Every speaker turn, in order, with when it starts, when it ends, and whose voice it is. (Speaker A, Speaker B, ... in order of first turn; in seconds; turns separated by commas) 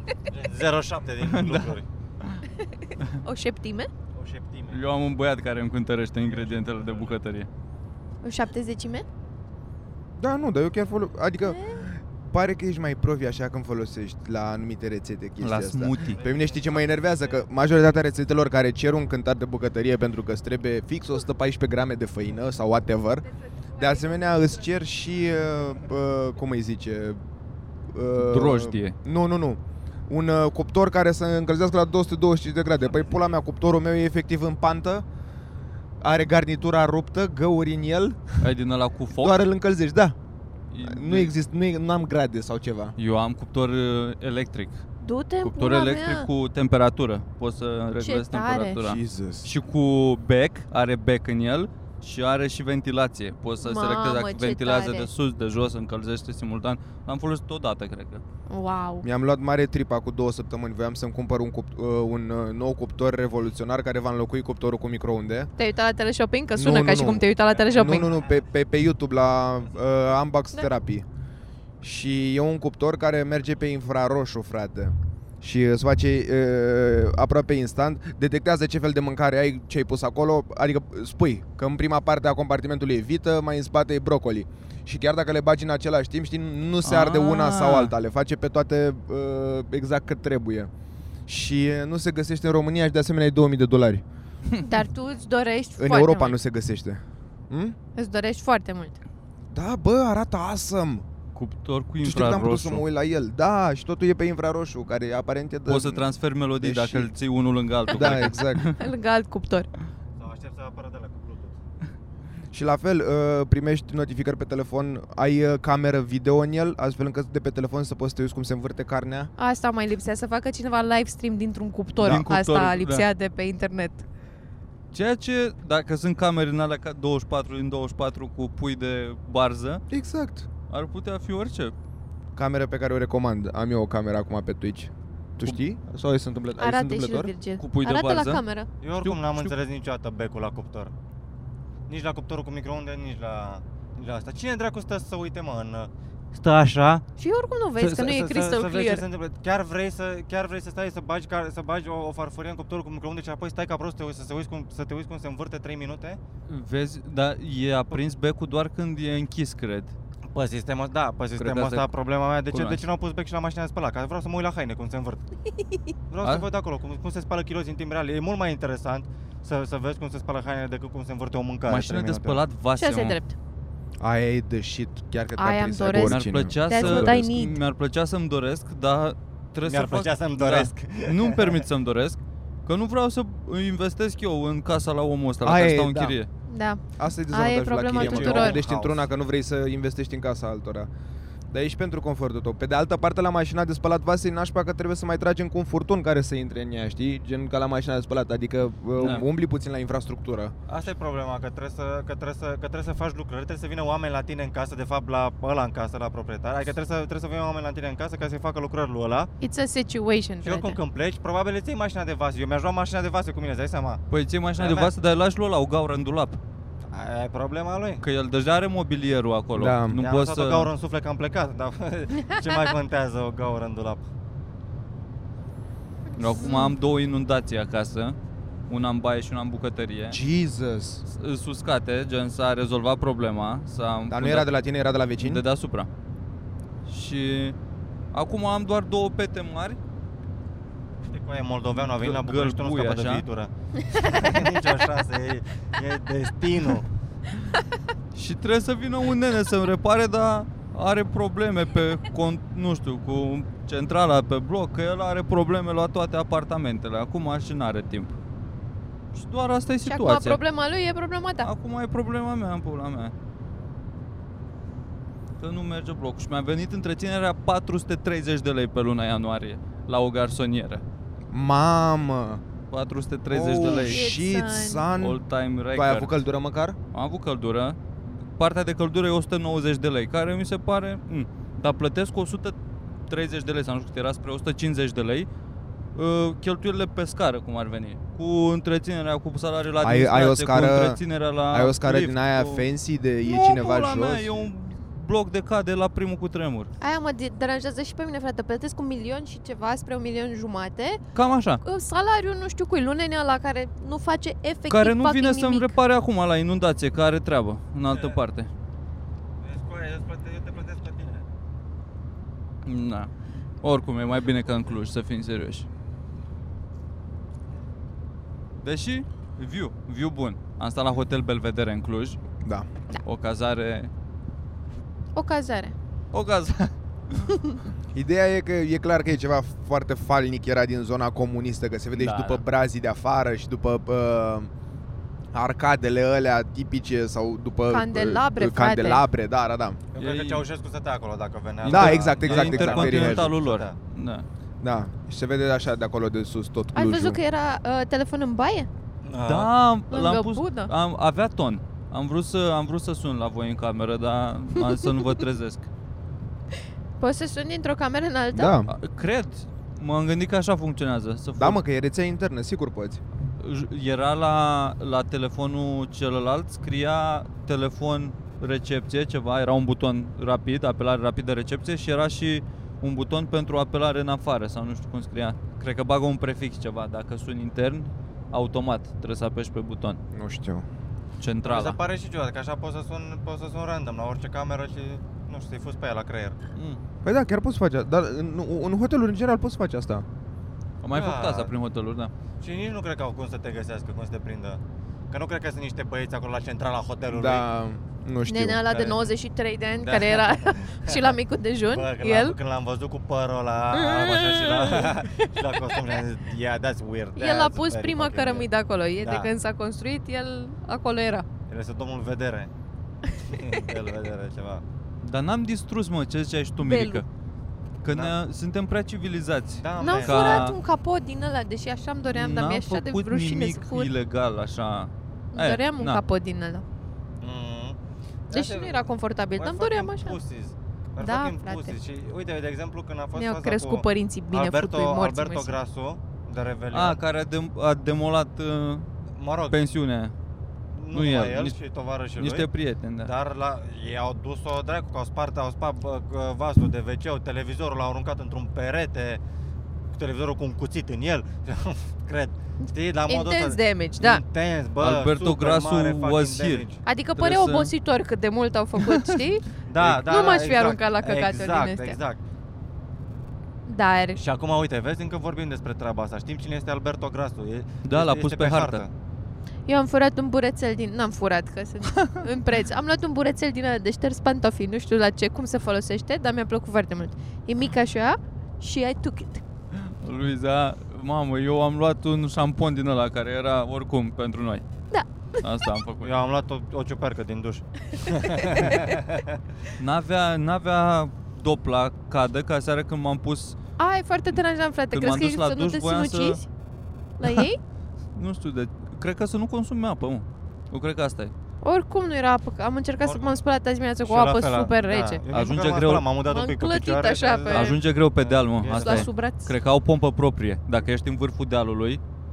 Speaker A: 0.2-1.8, Speaker B: 1.2-2.4, Speaker C: 2.6-3.9, Speaker A: 4.1-4.8, Speaker B: 4.7-7.5, Speaker A: 6.3-7.2, Speaker C: 8.2-9.1, Speaker D: 10.2-27.2, Speaker C: 11.4-11.8, Speaker B: 15.4-16.2, Speaker A: 16.0-17.5, Speaker C: 23.4-24.1, Speaker D: 27.9-35.0, Speaker B: 28.2-28.9, Speaker D: 36.0-38.4, Speaker B: 38.4-39.4, Speaker D: 39.2-40.2, Speaker B: 40.7-41.3, Speaker D: 40.8-43.0, Speaker B: 43.0-44.8, Speaker C: 45.0-46.3, Speaker B: 45.4-58.2, Speaker C: 48.0-48.8, Speaker D: 48.8-49.5, Speaker C: 53.6-55.1, Speaker C: 58.5-59.0, Speaker D: 59.0-65.5, Speaker C: 65.6-68.1, Speaker D: 66.5-71.0, Speaker D: 71.8-90.7, Speaker B: 86.8-87.9, Speaker D: 91.3-94.0, Speaker C: 94.6-96.3, Speaker D: 95.8-97.8, Speaker C: 97.9-99.0, Speaker D: 99.5-101.0, Speaker B: 101.3-102.8, Speaker D: 102.0-106.1, Speaker B: 105.7-108.8, Speaker D: 106.6-107.1, Speaker D: 107.9-108.7, Speaker C: 107.9-109.7, Speaker A: 110.2-111.5, Speaker D: 112.5-119.3, Speaker C: 119.4-124.0, Speaker B: 122.0-123.0, Speaker B: 124.9-129.8, Speaker D: 129.9-130.5, Speaker B: 130.7-131.7, Speaker D: 132.3-137.3, Speaker C: 136.6-138.7, Speaker B: 137.6-138.4, Speaker A: 138.8-140.9, Speaker B: 139.0-139.5, Speaker A: 141.9-147.0, Speaker C: 147.2-149.0, Speaker A: 147.8-156.2, Speaker B: 156.5-159.9, Speaker A: 160.3-165.2, Speaker B: 161.4-161.8, Speaker B: 162.5-162.8, Speaker A: 166.1-172.4, Speaker B: 171.7-173.2, Speaker C: 172.8-173.3, Speaker D: 174.0-177.2, Speaker C: 175.4-177.6, Speaker B: 175.9-186.3, Speaker A: 179.6-181.6, Speaker D: 185.4-186.2, Speaker C: 186.5-188.6, Speaker D: 187.0-190.9, Speaker A: 187.9-189.1, Speaker D: 191.5-200.5, Speaker B: 199.0-199.2, Speaker A: 200.7-209.3, Speaker C: 209.4-210.8, Speaker A: 210.4-214.0, Speaker B: 214.1-216.4, Speaker A: 214.6-214.9, Speaker A: 216.9-218.0, Speaker B: 218.0-220.7, Speaker D: 219.5-220.0, Speaker A: 220.0-224.1, Speaker B: 226.2-228.2, Speaker C: 226.2-226.8, Speaker B: 228.7-230.2, Speaker D: 230.1-231.0, Speaker B: 231.1-234.5, Speaker D: 234.1-235.4, Speaker B: 235.2-235.9, Speaker B: 236.8-237.6, Speaker B: 238.1-239.8, Speaker A: 241.0-246.8, Speaker B: 241.8-243.2, Speaker C: 244.0-244.4, Speaker B: 248.1-258.1, Speaker B: 259.1-260.4, Speaker C: 259.8-261.5, Speaker B: 261.4-263.1, Speaker B: 265.4-270.8, Speaker D: 271.3-272.4, Speaker B: 272.7-274.0, Speaker D: 273.3-275.2, Speaker C: 273.6-274.9, Speaker B: 275.0-276.1, Speaker D: 275.7-276.8, Speaker B: 276.9-277.8, Speaker B: 278.4-282.6, Speaker B: 283.1-285.3, Speaker B: 285.9-292.6, Speaker D: 289.8-294.5, Speaker B: 293.2-296.7, Speaker C: 296.8-301.0, Speaker B: 301.1-301.6, Speaker C: 301.6-305.7, Speaker B: 304.7-308.5, Speaker A: 307.9-308.2, Speaker A: 309.4-311.2, Speaker B: 312.6-313.1, Speaker B: 313.6-315.7, Speaker B: 318.6-322.2, Speaker B: 323.0-323.9, Speaker C: 325.1-325.7, Speaker B: 326.1-327.3, Speaker D: 327.9-334.5, Speaker B: 331.9-332.4, Speaker D: 335.3-339.8, Speaker C: 337.7-339.0, Speaker A: 339.9-343.8, Speaker B: 340.0-340.4, Speaker B: 341.6-344.2, Speaker D: 341.6-343.3, Speaker D: 344.6-347.2, Speaker C: 346.7-348.7, Speaker A: 349.0-349.5, Speaker B: 349.2-355.7, Speaker C: 349.9-350.7, Speaker C: 357.0-358.6, Speaker D: 358.3-358.7, Speaker B: 358.7-361.6, Speaker D: 361.4-363.0, Speaker B: 363.4-380.0, Speaker D: 380.1-380.6, Speaker B: 381.2-381.8, Speaker A: 381.4-386.4, Speaker B: 386.6-386.8, Speaker D: 387.0-390.1, Speaker B: 390.8-392.1, Speaker A: 390.9-391.5, Speaker A: 392.4-394.6, Speaker A: 395.1-397.5, Speaker D: 397.1-398.6, Speaker C: 398.3-402.4, Speaker A: 398.7-399.1, Speaker A: 399.8-401.1, Speaker A: 401.7-408.5, Speaker C: 403.7-405.8, Speaker C: 407.1-411.2, Speaker A: 409.0-409.3, Speaker A: 411.5-412.5, Speaker A: 413.2-414.6, Speaker B: 415.0-417.1, Speaker C: 416.6-417.0, Speaker B: 417.8-420.6, Speaker A: 419.6-420.5, Speaker C: 419.8-423.9, Speaker B: 422.1-426.0, Speaker C: 425.3-426.6, Speaker A: 427.2-427.8, Speaker A: 428.3-437.0, Speaker C: 428.3-430.2, Speaker C: 431.0-431.8, Speaker C: 433.1-435.5, Speaker B: 436.7-438.9, Speaker A: 439.1-439.6, Speaker B: 439.5-440.1, Speaker A: 440.7-442.5, Speaker B: 440.9-441.6, Speaker B: 442.2-443.1, Speaker A: 443.0-449.2, Speaker A: 449.9-456.8, Speaker C: 453.1-454.2, Speaker B: 454.8-457.7, Speaker C: 456.8-459.4, Speaker B: 458.8-459.2, Speaker A: 459.6-462.2, Speaker C: 460.0-462.0, Speaker C: 463.6-464.2, Speaker A: 464.2-468.9, Speaker B: 467.8-468.8, Speaker C: 469.6-479.4, Speaker B: 479.8-484.6, Speaker C: 484.9-485.4, Speaker B: 485.4-486.1, Speaker A: 486.0-489.4, Speaker B: 489.8-493.6, Speaker C: 493.8-496.4, Speaker B: 494.9-496.4, Speaker C: 497.2-497.6, Speaker B: 498.1-501.3, Speaker C: 501.6-505.2, Speaker A: 503.0-503.4, Speaker A: 504.0-509.1, Speaker B: 505.3-506.1, Speaker C: 506.2-507.8, Speaker B: 507.5-512.0, Speaker C: 508.7-509.5